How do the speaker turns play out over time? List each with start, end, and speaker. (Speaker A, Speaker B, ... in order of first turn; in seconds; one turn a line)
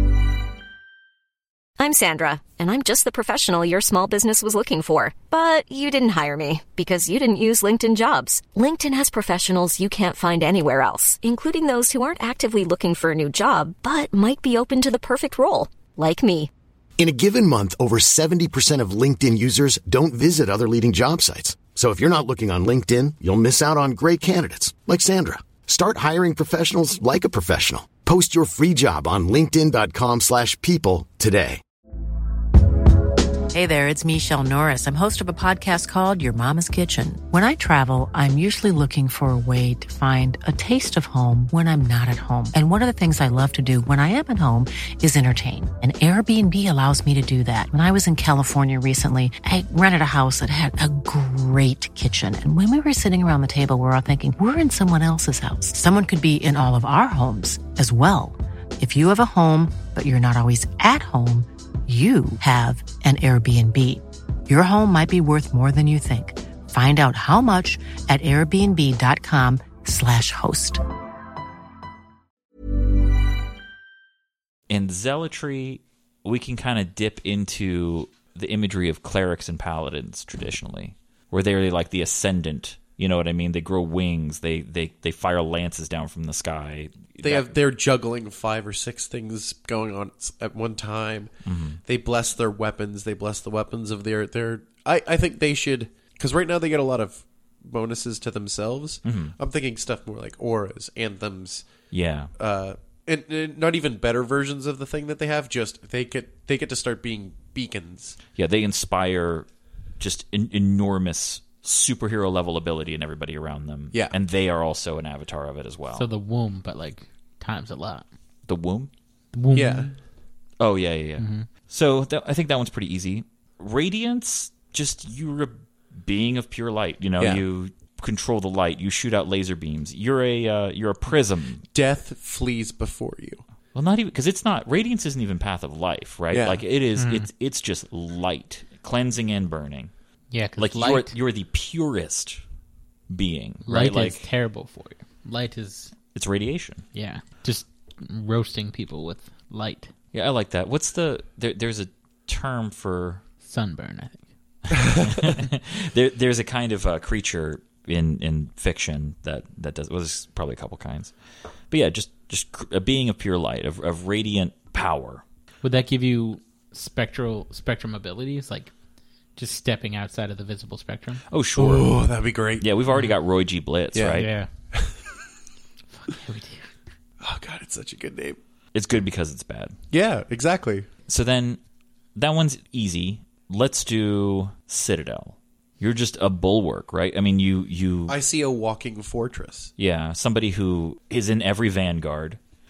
Speaker A: 1.8-16.5
Speaker B: 17.0-31.6
Speaker C: 33.5-70.8
Speaker D: 74.7-87.5
Speaker E: 87.2-91.3
Speaker D: 91.5-91.8
Speaker E: 91.9-101.7
Speaker D: 99.0-99.3
Speaker D: 101.9-102.3
Speaker E: 102.4-108.2
Speaker D: 108.4-109.5
Speaker D: 110.0-116.1
Speaker F: 116.0-118.1
Speaker D: 118.5-118.9
Speaker F: 119.3-119.9
Speaker E: 119.5-119.9
Speaker D: 120.6-131.7
Speaker F: 121.2-121.5
Speaker E: 131.7-133.4
Speaker D: 133.8-139.9
Speaker E: 136.3-136.6
Speaker F: 137.0-137.3
Speaker F: 140.3-141.1
Speaker D: 140.6-142.4
Speaker D: 143.1-144.2
Speaker F: 143.7-145.9
Speaker D: 146.1-146.8
Speaker F: 146.9-149.9
Speaker D: 150.1-153.2
Speaker F: 153.4-154.2
Speaker D: 154.7-161.1
Speaker D: 161.7-165.2
Speaker F: 165.6-168.7
Speaker F: 169.4-171.2
Speaker D: 171.3-171.9
Speaker E: 171.6-172.7
Speaker D: 172.6-174.3
Speaker E: 173.9-175.0
Speaker F: 174.1-174.5
Speaker F: 176.0-176.7
Speaker E: 177.2-178.4
Speaker D: 178.7-179.8
Speaker E: 179.9-180.9
Speaker D: 181.1-181.6
Speaker D: 182.2-188.2
Speaker E: 188.1-189.7
Speaker D: 189.8-192.4